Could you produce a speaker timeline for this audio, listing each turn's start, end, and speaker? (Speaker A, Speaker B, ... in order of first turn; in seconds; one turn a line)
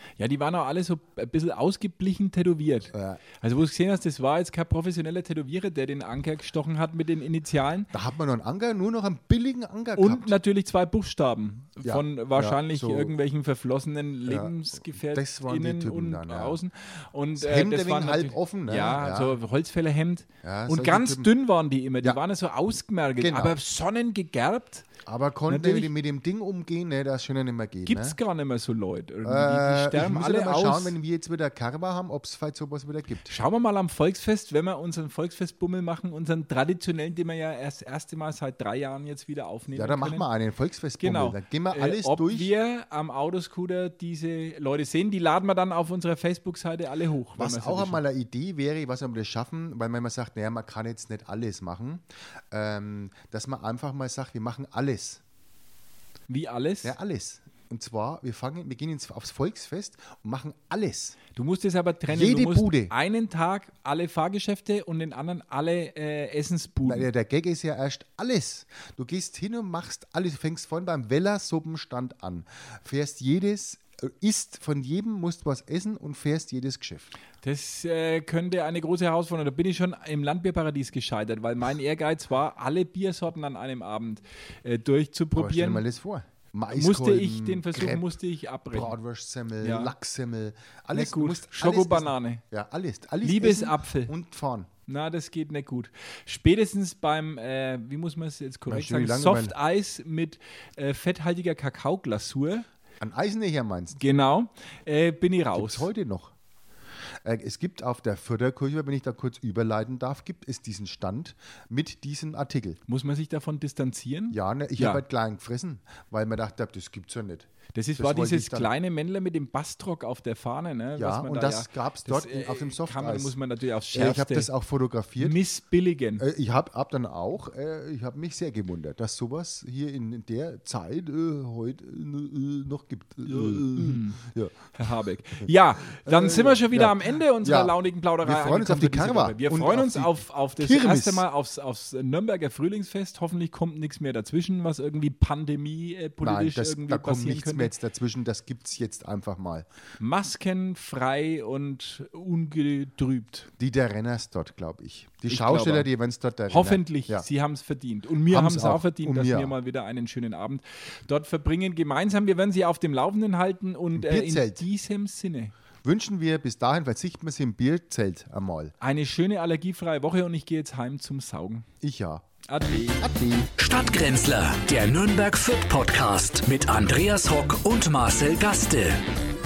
Speaker A: 0.2-7.9
Speaker B: 2.9-3.2
Speaker B: 7.9-10.4
Speaker A: 10.0-24.9
Speaker B: 11.8-13.1
Speaker B: 14.3-16.6
Speaker B: 17.4-19.4
Speaker B: 20.4-21.3
Speaker B: 23.2-23.6
Speaker B: 25.1-28.2
Speaker A: 25.5-25.9
Speaker A: 27.9-30.9
Speaker B: 29.2-33.4
Speaker A: 33.3-40.3
Speaker B: 39.8-42.5
Speaker A: 41.0-48.0
Speaker B: 47.4-55.2
Speaker A: 56.3-57.0
Speaker B: 56.8-61.2
Speaker A: 61.3-67.1
Speaker B: 62.1-62.9
Speaker B: 66.8-77.1
Speaker A: 77.4-85.8
Speaker B: 85.3-88.1
Speaker A: 86.7-88.9
Speaker B: 88.7-94.7
Speaker A: 89.6-89.9
Speaker A: 90.9-92.4
Speaker A: 93.2-94.1
Speaker A: 94.9-102.7
Speaker B: 98.7-99.5
Speaker B: 103.0-104.0
Speaker A: 104.0-105.9
Speaker B: 105.5-106.3
Speaker B: 107.2-112.8
Speaker A: 112.9-115.0
Speaker B: 114.3-118.7
Speaker A: 117.7-124.5
Speaker B: 121.0-123.3
Speaker B: 123.9-125.4
Speaker A: 125.2-126.2
Speaker B: 126.2-134.5
Speaker A: 133.2-134.2
Speaker A: 134.8-147.7
Speaker B: 136.0-141.2
Speaker B: 146.2-149.7
Speaker A: 150.0-153.5
Speaker B: 153.6-157.3
Speaker A: 155.3-155.9
Speaker A: 156.5-165.5
Speaker B: 158.3-159.6
Speaker B: 164.0-164.6
Speaker B: 165.8-168.8
Speaker A: 168.8-171.7
Speaker B: 171.8-172.2
Speaker A: 172.5-173.1
Speaker B: 173.0-173.5
Speaker C: 173.6-179.0